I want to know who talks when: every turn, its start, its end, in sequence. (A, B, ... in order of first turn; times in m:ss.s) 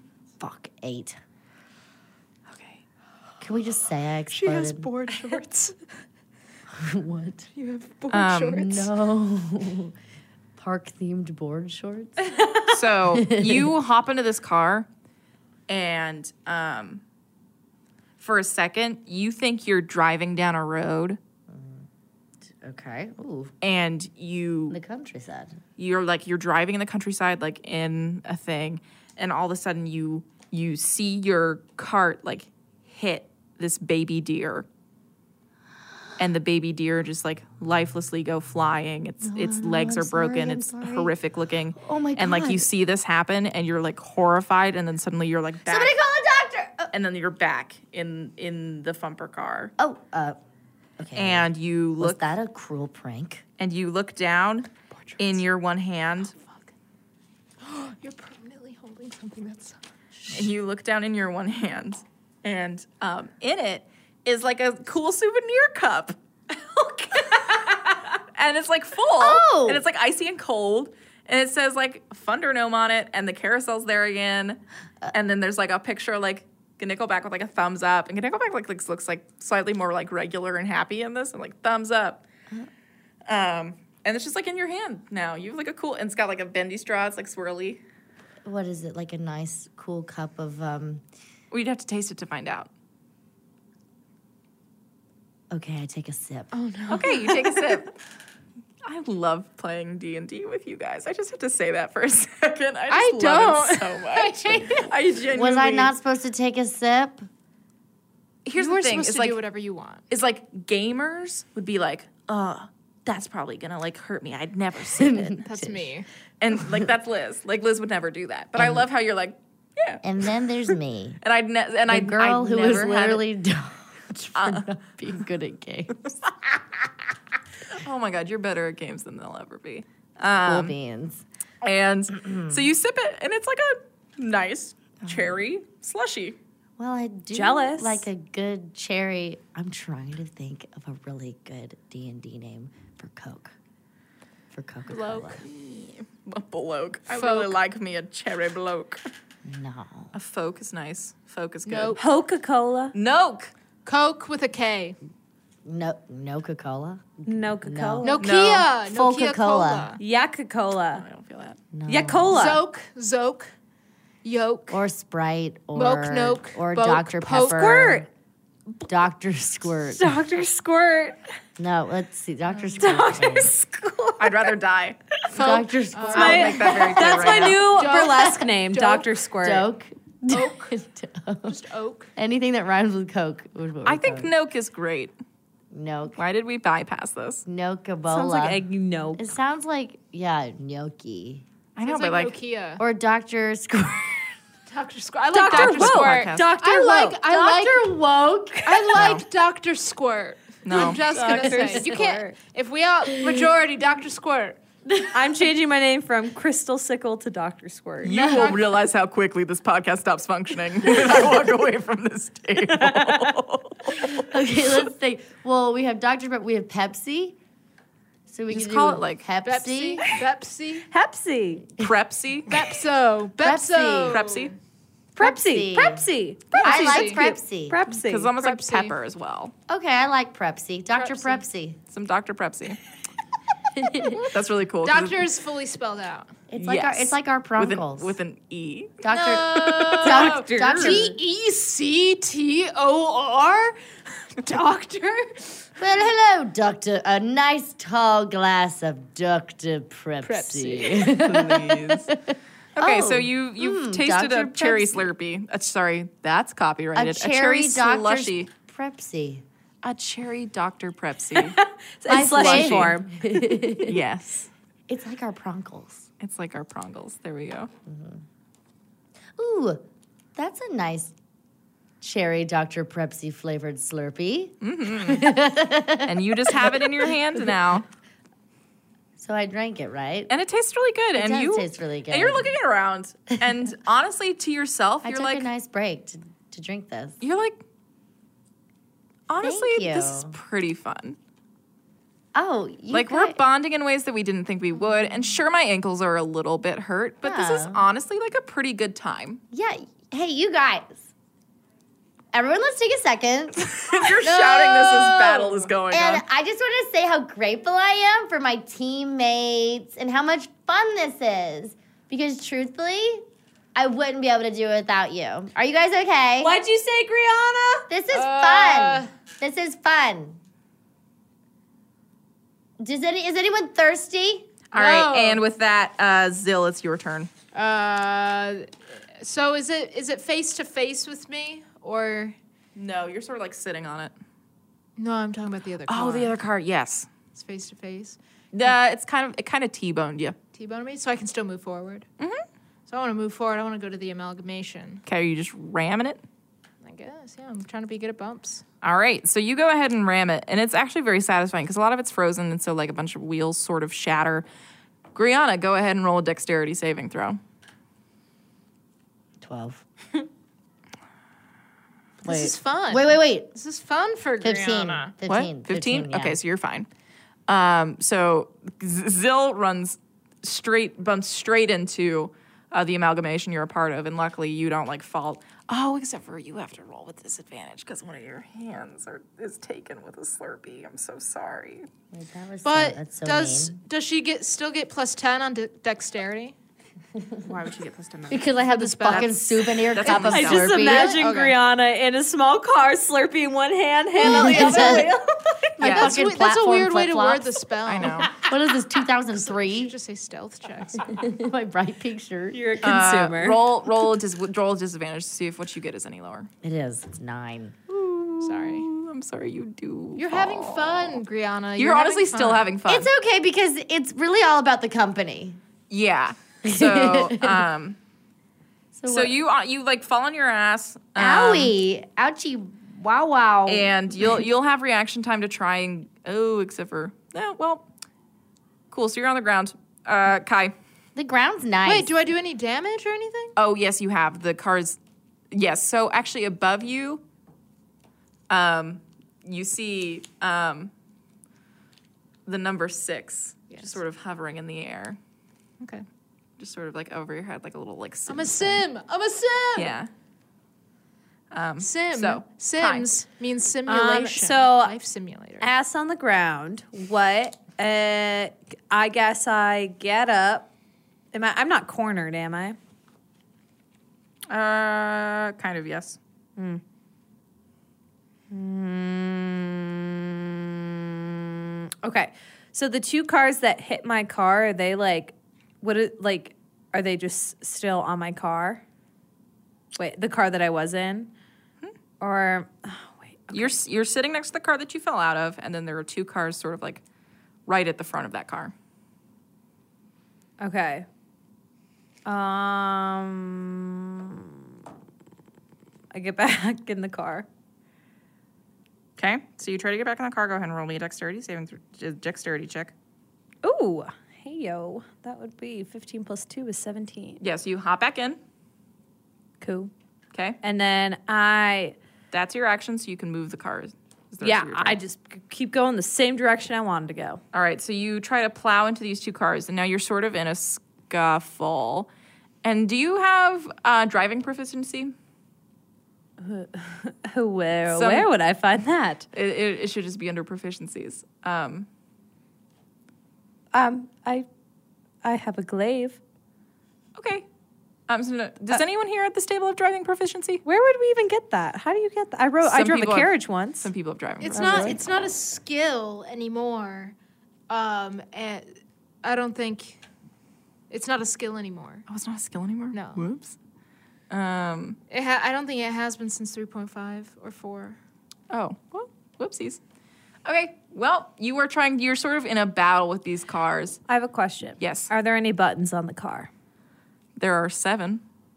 0:00.4-0:01.2 A
0:02.5-0:02.8 B
0:03.4-0:04.9 A
0:04.3-0:05.8 C
0:06.7-0:07.5 A
0:07.5-0:08.9 C
0:08.1-0:08.7 B
0:08.6-0:09.9 A
0:10.6-0:12.4 A
0:12.6-0:14.9 B
0:13.1-0:13.7 A
0:15.7-0:17.0 B
0:18.2-0:21.2 B
0:21.5-0:21.8 A
0:22.5-0:23.5 A
0:23.6-0:24.8 B
0:24.7-0:25.6 A
0:25.8-0:34.6 B
0:36.2-0:46.0 B
0:39.2-0:41.1 A
0:41.8-0:42.7 A
0:45.7-0:46.9 A
0:46.9-0:49.7 B
0:49.8-0:50.4 A
0:51.0-0:53.4 A
0:51.1-0:52.2 B
0:53.6-0:56.3 B
0:54.9-0:55.4 C
0:56.4-0:56.7 C
0:57.6-0:59.8 C
1:00.3-1:06.2 B
1:06.9-1:22.2 B
1:09.2-1:09.8 A
1:23.2-1:27.8 B
1:28.4-1:31.0 A
1:31.5-1:32.7 B
1:35.5-1:36.5 A
1:36.5-1:37.8 C
1:36.9-1:37.9 B
1:38.8-1:45.9 B
1:42.9-1:44.9 C
1:45.3-1:47.3 A
1:48.4-1:49.4 B
1:48.6-1:50.0 C
1:50.1-1:55.5 B
1:55.0-1:55.9 A
1:55.4-1:56.1 C
1:56.4-2:00.0 B
1:58.6-1:58.8 A
2:00.0-2:01.2 A
2:01.2-2:03.2 B
2:01.9-2:06.3 A
2:04.3-2:04.7 B
2:07.7-2:10.7 B
2:10.4-2:11.2 A
2:11.6-2:16.4 B
2:16.8-2:23.5 A
2:17.3-2:18.1 D
2:24.5-2:25.4 A
2:24.9-2:25.3 C
2:25.3-2:29.0 B
2:27.1-2:27.5 C
2:29.4-2:30.1 A
2:30.1-2:32.0 B
2:31.6-2:32.0 C
2:32.0-2:32.9 D
2:32.9-2:33.5 B
2:33.8-2:35.0 C
2:35.6-2:38.2 A
2:37.2-2:38.2 D
2:38.0-2:40.0 C
2:38.2-2:38.7 B
2:38.8-2:39.9 A
2:40.0-2:41.0 D
2:40.9-2:41.6 B
2:41.7-2:42.6 A
2:41.9-2:42.6 D
2:42.3-2:43.5 C
2:44.2-2:44.8 C
2:44.7-2:48.1 A
2:45.7-2:47.8 C
2:47.5-2:48.1 D
2:48.8-2:50.1 A
2:49.9-2:51.2 D
2:51.6-2:53.5 A
2:52.7-2:54.5 D
2:54.2-2:55.0 B
2:55.3-2:59.1 C
2:55.3-2:58.4 A
2:56.1-2:59.7 D
2:56.1-2:57.7 B
2:59.4-3:01.6 A
3:00.3-3:00.7 C
3:01.5-3:02.1 C
3:02.2-3:04.3 A
3:03.8-3:05.1 B
3:05.7-3:06.2 A
3:06.2-3:07.4 B
3:07.4-3:08.6 A
3:08.1-3:09.3 D
3:09.2-3:11.4 A
3:11.8-3:12.4 B
3:11.8-3:12.8 C
3:12.8-3:14.4 A
3:14.7-3:17.9 C
3:15.3-3:17.2 D
3:15.5-3:16.5 B
3:17.2-3:19.2 A
3:18.6-3:24.6 C
3:18.9-3:19.2 B
3:20.6-3:21.2 B
3:20.7-3:22.4 D
3:21.3-3:22.0 A
3:23.1-3:23.4 A
3:24.9-3:25.1 A
3:25.1-3:28.4 D
3:28.0-3:34.3 B
3:28.1-3:28.6 C
3:32.7-3:33.3 D
3:33.9-3:37.4 A
3:38.3-3:40.1 A
3:38.5-3:39.2 B
3:39.4-3:40.8 C
3:40.9-3:41.7 D
3:41.8-3:42.6 B
3:42.5-3:44.6 C
3:43.4-3:44.2 A
3:44.1-3:44.5 B
3:45.2-3:48.3 D
3:45.2-3:46.0 A
3:46.6-3:47.2 C
3:46.6-3:47.8 A
3:47.9-3:49.5 B
3:48.4-3:48.9 C
3:49.7-3:51.8 A
3:51.0-3:51.4 C
3:51.9-3:52.8 B
3:53.7-3:54.3 A
3:54.1-3:55.2 B
3:54.8-3:56.3 C
3:56.5-3:58.1 A
3:56.6-4:00.0 B
3:59.0-4:01.2 A
3:59.1-4:03.8 C
4:00.0-4:01.0 D
4:04.3-4:05.7 C
4:05.8-4:15.1 A
4:10.2-4:11.2 C
4:11.1-4:12.1 B
4:12.8-4:18.5 B
4:16.9-4:19.4 A
4:19.8-4:21.6 B
4:21.3-4:23.8 D
4:22.1-4:24.0 A
4:22.1-4:23.0 B
4:23.8-4:24.5 B
4:24.9-4:26.1 A
4:26.2-4:27.7 B
4:27.8-4:28.2 A
4:29.4-4:29.8 A
4:30.4-4:31.1 A
4:32.0-4:37.1 A
4:34.6-4:35.4 B
4:36.0-4:37.8 B
4:39.2-4:40.3 A
4:40.3-4:45.5 B
4:41.2-4:42.5 A
4:45.0-4:47.2 A
4:47.2-4:47.6 B
4:49.3-4:51.2 B
4:49.4-4:50.3 A
4:52.3-4:53.4 A
4:52.9-4:59.4 B
4:57.2-4:57.8 A
4:59.5-5:01.1 A
5:02.3-5:16.5 A
5:03.7-5:06.2 B
5:16.4-5:17.9 D
5:17.9-5:20.4 A
5:18.1-5:19.1 C
5:22.8-5:24.5 A
5:24.7-5:27.3 B
5:24.7-5:25.4 C
5:27.5-5:32.4 C
5:32.7-5:34.1 B
5:35.0-5:36.3 C
5:35.9-5:37.1 B
5:37.3-5:38.2 C
5:38.5-5:40.4 B
5:40.5-5:42.1 C
5:42.2-5:42.4 B
5:42.9-5:45.0 C
5:45.0-5:46.2 B
5:46.8-5:48.6 C
5:48.8-5:54.4 B
5:55.1-5:57.4 B
5:59.4-5:59.8 A
6:02.2-6:03.5 A
6:02.2-6:05.1 C
6:04.4-6:06.4 A
6:05.2-6:06.9 B
6:07.5-6:21.9 B
6:22.1-6:23.8 A
6:22.6-6:26.5 C
6:27.4-6:28.4 B
6:28.3-6:31.2 A
6:28.6-6:31.6 C
6:29.9-6:30.8 B
6:30.1-6:35.6 D
6:34.2-6:35.1 A
6:34.2-6:35.1 C
6:35.8-6:39.9 A
6:35.8-6:36.2 B
6:35.8-6:38.4 C
6:37.8-6:38.3 B
6:39.3-6:41.2 C
6:41.0-6:42.7 A
6:42.5-6:43.6 D
6:42.8-6:46.5 B
6:46.6-6:47.8 A
6:47.9-6:51.2 B
6:48.4-6:48.9 C
6:50.1-6:52.7 C
6:51.8-6:53.1 B
6:52.9-6:55.6 A
6:55.9-6:58.0 B
6:56.6-6:57.6 A
6:58.9-6:59.3 A
6:59.1-7:01.7 B
7:01.2-7:04.0 A
7:03.6-7:07.8 B
7:08.9-7:10.7 B
7:11.1-7:12.1 A
7:11.8-7:13.5 C
7:13.6-7:15.0 B
7:15.5-7:17.2 B
7:18.5-7:20.9 B
7:22.4-7:25.2 B
7:23.7-7:24.0 C
7:25.8-7:26.0 C
7:26.6-7:28.8 B
7:28.3-7:29.9 C
7:29.7-7:30.1 B
7:31.5-7:33.1 B
7:31.8-7:35.7 C
7:33.8-7:34.9 D
7:35.6-7:40.7 D
7:41.3-7:42.8 D
7:44.5-7:46.2 B
7:48.5-7:58.8 D
7:59.9-8:01.3 D
8:02.2-8:03.7 D
8:03.5-8:07.0 B
8:07.6-8:08.7 B
8:10.6-8:11.0 D
8:12.2-8:14.6 D
8:16.1-8:17.5 D
8:19.2-8:22.9 B
8:23.6-8:27.4 D
8:27.4-8:28.4 B
8:29.6-8:29.9 D
8:30.3-8:30.6 B
8:30.6-8:32.0 D
8:32.3-8:35.0 B
8:34.4-8:37.4 D
8:37.5-8:42.1 B
8:42.6-8:45.1 B
8:46.4-8:49.3 D
8:47.9-8:48.3 B
8:49.3-8:51.9 B
8:53.7-8:54.4 D
8:55.2-8:56.2 D
8:57.2-8:57.4 B
8:58.1-9:00.6 B
9:00.6-9:03.9 D
9:02.6-9:05.0 B
9:04.4-9:07.1 C
9:04.5-9:05.0 D
9:07.7-9:08.6 C
9:09.2-9:10.0 C
9:10.9-9:12.0 C
9:12.1-9:13.6 B
9:12.9-9:13.2 C
9:14.3-9:15.0 B
9:15.1-9:18.0 C
9:18.5-9:19.8 B
9:20.4-9:24.0 B
9:24.1-9:26.5 D
9:24.8-9:25.1 B
9:27.4-9:28.2 B